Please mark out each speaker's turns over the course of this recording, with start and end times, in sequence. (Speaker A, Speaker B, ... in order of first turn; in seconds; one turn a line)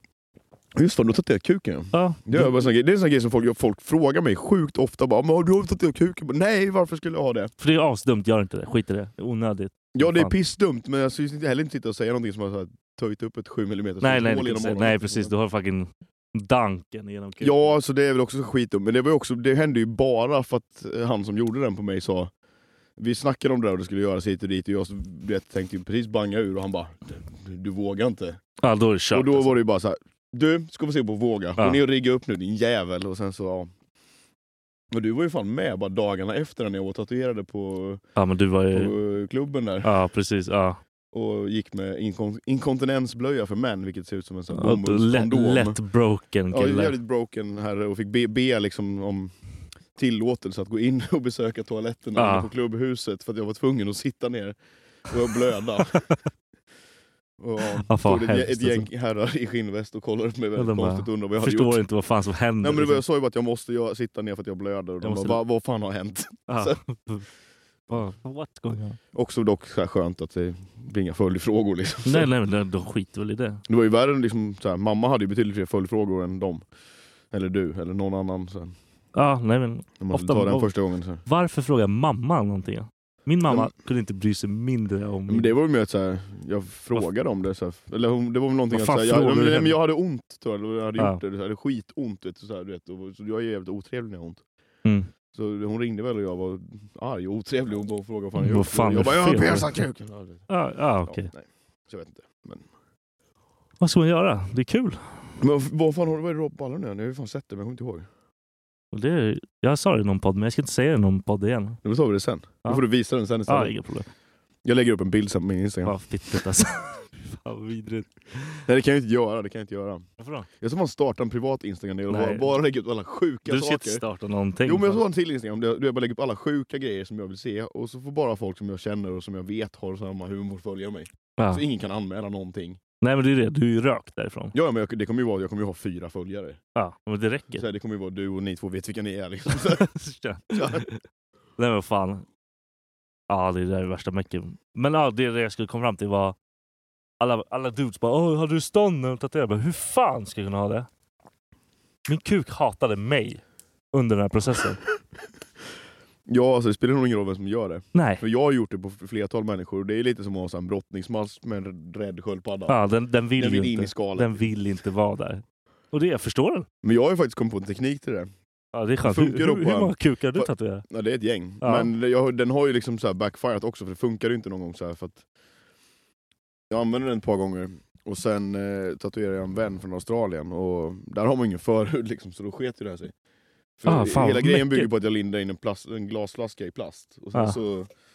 Speaker A: 0.7-7.5
Speaker B: 1.9-2.7
Speaker B: 7.6-10.3
Speaker A: 9.9-15.3
Speaker B: 14.0-17.8
Speaker A: 17.4-22.3
Speaker A: 23.0-28.4
Speaker B: 28.6-29.6
Speaker A: 29.1-33.7
Speaker A: 34.9-38.0
Speaker B: 38.1-38.9
Speaker A: 38.7-39.9
Speaker B: 39.8-40.8
Speaker A: 41.1-45.8
Speaker B: 44.5-47.0
Speaker A: 46.5-49.3
Speaker A: 49.9-54.6
Speaker B: 52.1-52.5
Speaker A: 55.1-56.0
Speaker A: 57.4-61.8
Speaker B: 57.9-58.9
Speaker B: 60.5-63.0
Speaker A: 62.6-66.8
Speaker B: 65.0-65.4
Speaker B: 66.5-67.3
Speaker B: 67.9-69.0
Speaker A: 69.1-72.3
Speaker B: 72.0-73.6
Speaker A: 73.7-76.6
Speaker A: 77.3-78.7
Speaker B: 79.1-80.7
Speaker A: 80.0-81.2
Speaker B: 81.2-85.5
Speaker A: 83.5-83.7
Speaker A: 85.3-94.4
Speaker B: 88.7-89.8
Speaker B: 94.8-95.1
Speaker A: 95.3-100.5
Speaker B: 98.3-99.8
Speaker B: 100.5-101.3
Speaker A: 101.0-102.7
Speaker B: 103.8-105.1
Speaker A: 105.4-108.1
Speaker B: 108.9-111.8
Speaker A: 111.8-113.7
Speaker B: 113.5-114.1
Speaker A: 114.6-116.0
Speaker B: 115.8-118.6
Speaker A: 118.6-120.1
Speaker B: 120.2-120.5
Speaker A: 120.6-124.0
Speaker B: 122.1-122.6
Speaker B: 123.5-125.0
Speaker A: 124.6-132.8
Speaker B: 131.4-131.6
Speaker B: 133.0-134.5
Speaker A: 134.5-136.6
Speaker B: 136.8-137.6
Speaker A: 137.5-139.8
Speaker B: 139.5-141.0
Speaker A: 140.5-140.8
Speaker B: 141.6-142.2
Speaker B: 143.3-146.3
Speaker B: 147.2-150.9
Speaker B: 152.1-153.4
Speaker B: 153.9-154.8
Speaker A: 156.2-162.8
Speaker B: 157.9-158.2
Speaker B: 162.7-166.7
Speaker A: 163.3-164.4
Speaker A: 166.8-168.3
Speaker B: 168.7-170.8
Speaker A: 169.0-175.2
Speaker B: 171.6-171.9
Speaker A: 176.7-183.1
Speaker A: 183.8-187.9
Speaker B: 183.8-184.9